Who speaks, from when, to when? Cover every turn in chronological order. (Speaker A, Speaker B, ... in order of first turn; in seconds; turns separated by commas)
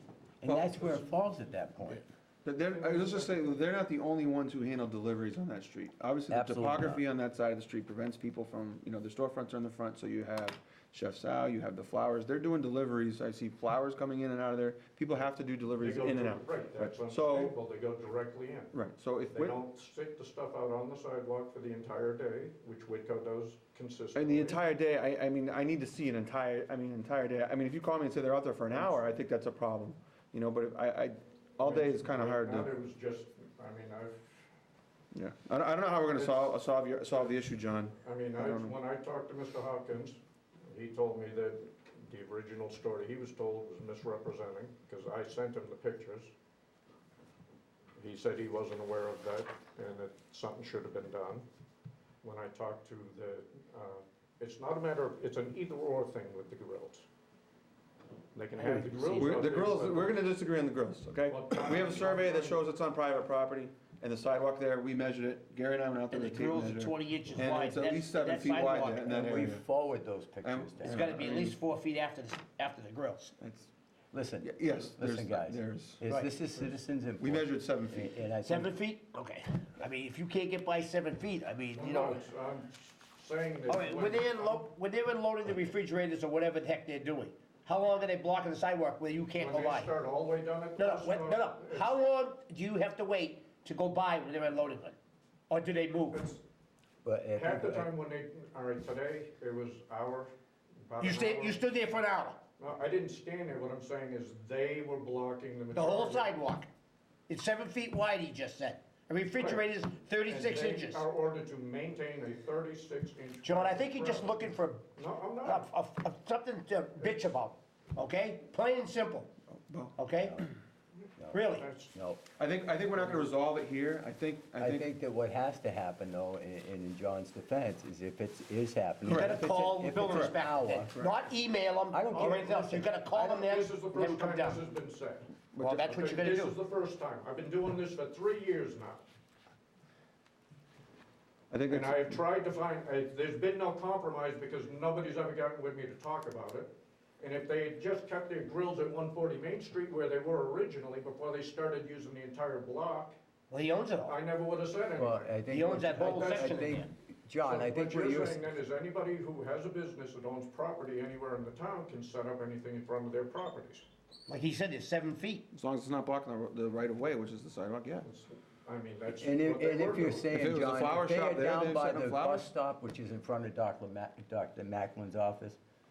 Speaker A: 0.4-2.0, Speaker B: 0.5-0.8, Speaker B: 2.5-17.5, Speaker C: 2.8-3.3, Speaker A: 6.3-7.0, Speaker C: 15.8-18.7, Speaker B: 18.7-19.6, Speaker C: 19.3-24.6, Speaker B: 24.1-32.7, Speaker C: 31.6-34.2, Speaker B: 35.1-38.8, Speaker C: 36.2-37.4, Speaker C: 38.0-46.3, Speaker C: 48.0-51.5, Speaker C: 52.2-57.1, Speaker C: 58.3-60.2, Speaker D: 58.6-59.1, Speaker B: 59.1-69.6, Speaker C: 61.3-62.6, Speaker D: 66.1-69.3, Speaker A: 69.1-71.1, Speaker B: 70.4-71.6, Speaker D: 70.8-73.4, Speaker B: 73.4-73.7, Speaker A: 74.1-78.7, Speaker B: 74.4-76.0, Speaker D: 76.0-76.3, Speaker B: 77.2-78.2, Speaker D: 78.4-82.2, Speaker C: 81.7-84.7, Speaker D: 83.7-89.9, Speaker C: 89.4-91.9, Speaker D: 90.8-95.0, Speaker D: 95.5-96.3, Speaker C: 96.1-96.4, Speaker A: 97.0-97.9, Speaker C: 97.4-100.3, Speaker C: 100.8-101.7, Speaker D: 101.0-102.4, Speaker C: 102.6-106.3, Speaker D: 105.7-106.7, Speaker D: 107.3-111.0, Speaker C: 109.3-109.7, Speaker C: 110.2-114.3, Speaker D: 113.4-114.9, Speaker C: 115.0-115.7, Speaker D: 115.4-119.3, Speaker B: 119.5-120.0, Speaker D: 120.0-120.4, Speaker D: 121.3-121.7, Speaker C: 121.5-121.9, Speaker A: 121.9-122.2, Speaker B: 122.4-124.9, Speaker A: 124.6-130.9, Speaker D: 129.1-134.6, Speaker B: 129.1-129.4, Speaker B: 130.0-131.2, Speaker A: 131.9-132.8, Speaker C: 132.1-135.3, Speaker B: 135.5-136.0, Speaker D: 135.6-136.6, Speaker C: 135.8-139.0, Speaker B: 141.5-142.1, Speaker C: 141.7-153.2, Speaker D: 153.5-154.2, Speaker C: 154.1-155.4, Speaker A: 155.0-158.5, Speaker D: 155.5-156.8, Speaker C: 155.9-156.8, Speaker C: 157.4-163.8, Speaker D: 164.3-165.4, Speaker B: 165.5-168.1, Speaker C: 168.0-170.3, Speaker A: 169.2-175.6, Speaker B: 170.3-172.5